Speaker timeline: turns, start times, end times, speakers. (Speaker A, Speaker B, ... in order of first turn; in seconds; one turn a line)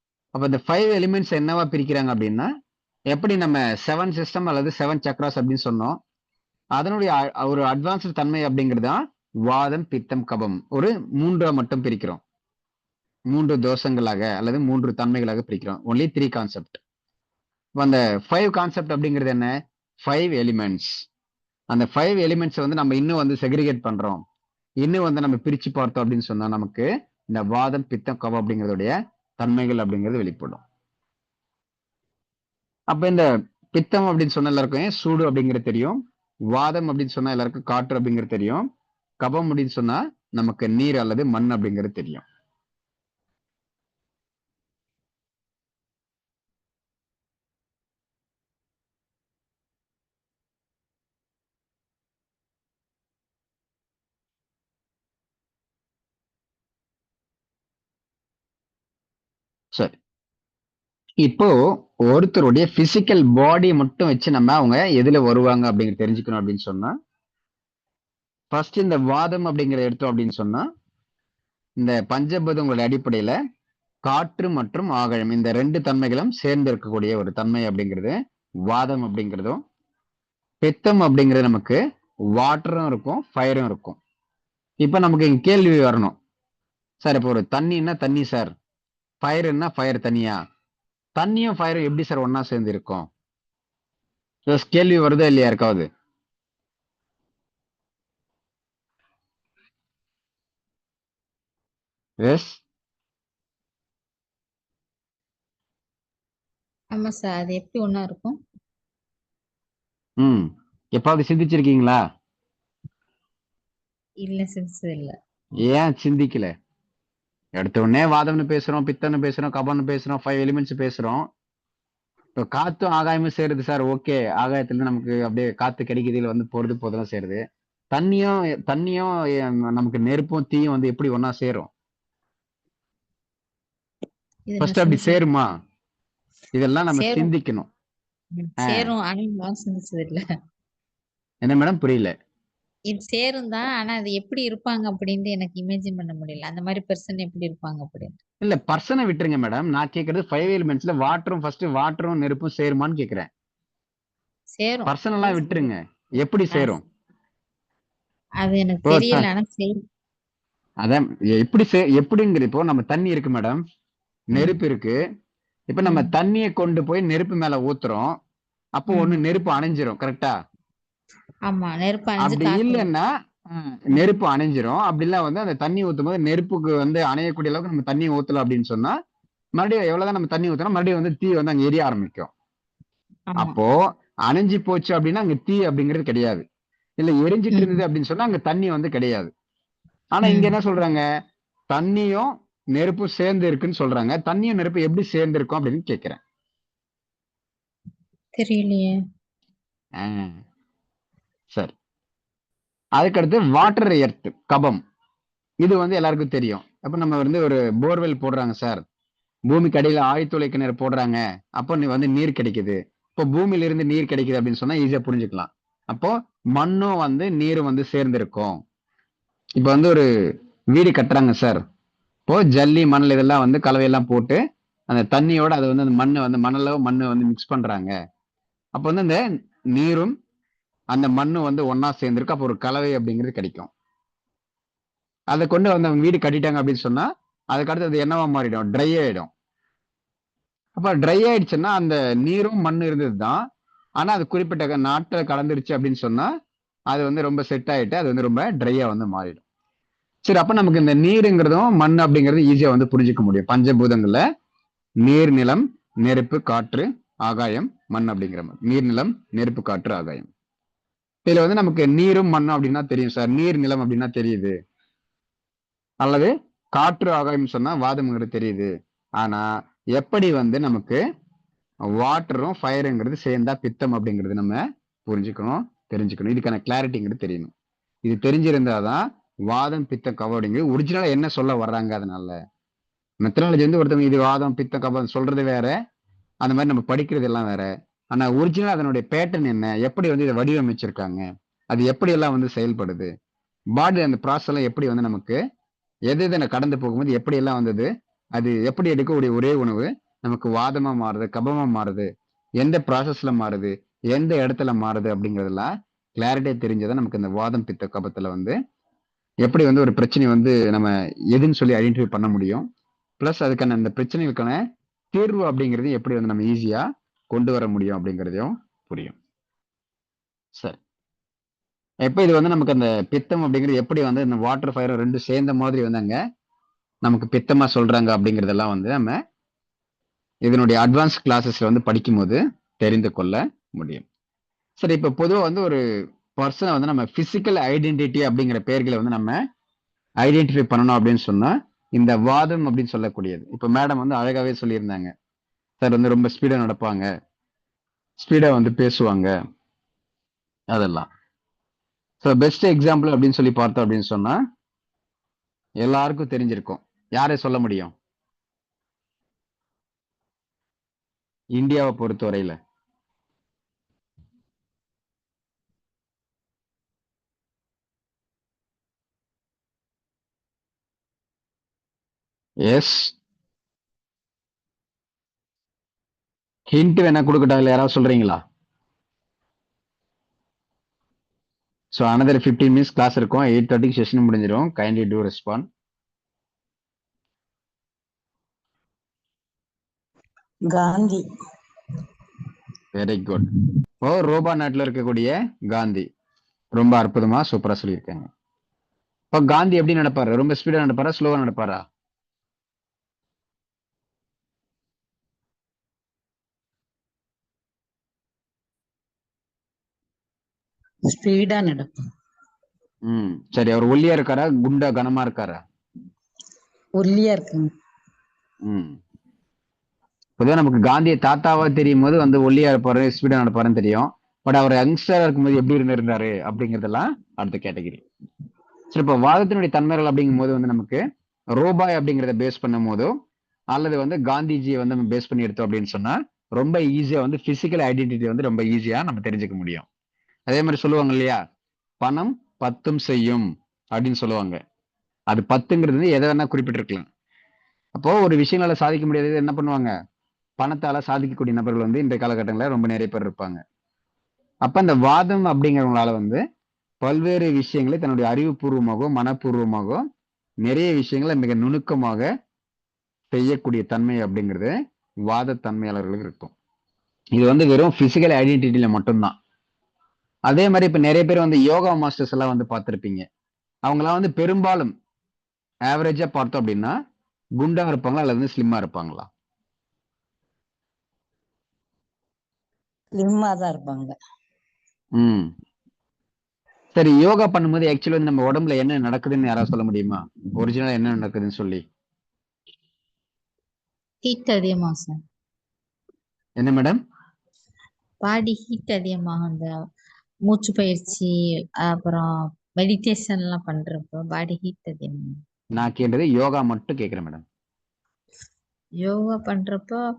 Speaker A: 0.3-2.5
Speaker A: 3.1-6.0
Speaker A: 6.8-12.2
Speaker A: 13.3-16.8
Speaker A: 17.8-21.1
Speaker A: 21.7-24.2
Speaker A: 24.8-30.6
Speaker A: 32.9-36.0
Speaker A: 36.5-38.7
Speaker A: 39.2-42.2
Speaker A: 61.2-66.9
Speaker A: 68.5-70.7
Speaker A: 71.8-73.3
Speaker A: 74.0-78.1
Speaker A: 78.7-79.6
Speaker A: 80.6-81.8
Speaker A: 82.3-84.0
Speaker A: 84.8-86.2
Speaker A: 87.0-88.5
Speaker A: 89.2-90.4
Speaker A: 91.2-93.1
Speaker A: 94.5-95.8
Speaker A: 102.2-102.6
Speaker B: 106.9-108.4
Speaker A: 110.2-112.0
Speaker B: 114.2-115.2
Speaker A: 115.7-116.5
Speaker A: 117.6-121.2
Speaker A: 122.4-127.4
Speaker A: 127.9-131.7
Speaker B: 134.5-135.2
Speaker A: 134.6-135.5
Speaker A: 136.5-137.7
Speaker B: 136.9-137.3
Speaker B: 138.3-140.2
Speaker A: 138.6-138.9
Speaker A: 141.4-142.1
Speaker B: 142.9-148.2
Speaker A: 148.4-153.3
Speaker B: 154.6-155.7
Speaker A: 154.9-156.8
Speaker B: 158.4-159.8
Speaker A: 158.9-159.3
Speaker A: 160.8-163.6
Speaker A: 164.3-165.0
Speaker A: 165.7-168.2
Speaker B: 165.8-166.1
Speaker A: 168.8-170.3
Speaker B: 168.9-169.2
Speaker B: 171.5-172.9
Speaker A: 172.2-178.9
Speaker A: 179.6-182.3
Speaker A: 183.4-186.4
Speaker A: 187.0-189.3
Speaker A: 190.1-191.0
Speaker B: 190.2-190.5
Speaker A: 191.7-196.2
Speaker B: 198.4-199.0
Speaker A: 200.0-200.3
Speaker A: 203.0-204.8
Speaker A: 205.6-208.8
Speaker A: 209.5-218.6
Speaker A: 219.6-220.1
Speaker A: 220.7-221.6
Speaker A: 222.3-227.9
Speaker A: 228.8-229.2
Speaker A: 229.7-230.2
Speaker A: 230.9-233.7
Speaker A: 235.3-239.3
Speaker A: 240.8-243.4
Speaker A: 244.0-246.3
Speaker A: 246.9-249.4
Speaker A: 250.2-254.2
Speaker A: 255.0-260.3
Speaker A: 261.2-264.6
Speaker A: 266.0-271.0
Speaker A: 271.9-277.5
Speaker A: 278.0-282.4
Speaker A: 283.2-285.8
Speaker A: 286.4-293.1
Speaker A: 293.7-295.4
Speaker A: 296.1-302.1
Speaker A: 302.6-308.6
Speaker A: 309.4-312.7
Speaker A: 313.2-314.6
Speaker A: 315.1-319.1
Speaker A: 322.1-326.1
Speaker A: 327.0-329.2
Speaker A: 330.4-334.0
Speaker A: 334.8-335.8
Speaker A: 336.4-339.4
Speaker A: 340.2-345.1
Speaker A: 345.8-347.1
Speaker A: 348.2-349.3
Speaker A: 350.7-351.1
Speaker A: 352.2-354.4
Speaker A: 355.8-357.9
Speaker A: 361.6-362.6
Speaker A: 372.7-373.1
Speaker A: 376.7-378.4
Speaker A: 381.9-385.6
Speaker C: 390.7-391.2
Speaker A: 392.9-393.5
Speaker A: 394.0-396.1
Speaker A: 396.7-398.3
Speaker A: 399.3-401.8
Speaker C: 411.1-412.0
Speaker A: 413.1-415.6
Speaker C: 417.0-417.7
Speaker A: 418.6-419.0
Speaker A: 420.4-428.0
Speaker A: 428.9-431.0
Speaker A: 431.6-433.1
Speaker A: 433.7-439.9
Speaker A: 440.5-441.4
Speaker A: 442.0-444.6
Speaker A: 445.3-447.1
Speaker A: 447.9-449.9
Speaker A: 450.6-453.6
Speaker A: 454.6-456.4
Speaker A: 457.0-460.0
Speaker A: 460.6-462.2
Speaker A: 463.3-464.7
Speaker A: 465.3-466.5
Speaker A: 467.4-469.3
Speaker A: 470.5-473.2
Speaker A: 473.9-474.9
Speaker A: 475.9-476.9
Speaker A: 477.6-479.3
Speaker C: 483.2-484.1
Speaker A: 485.2-485.5
Speaker A: 486.9-491.8
Speaker B: 494.2-495.2
Speaker A: 496.6-497.0
Speaker B: 498.2-499.7
Speaker B: 500.5-501.3
Speaker B: 501.8-505.4
Speaker A: 505.8-507.4
Speaker B: 509.0-510.0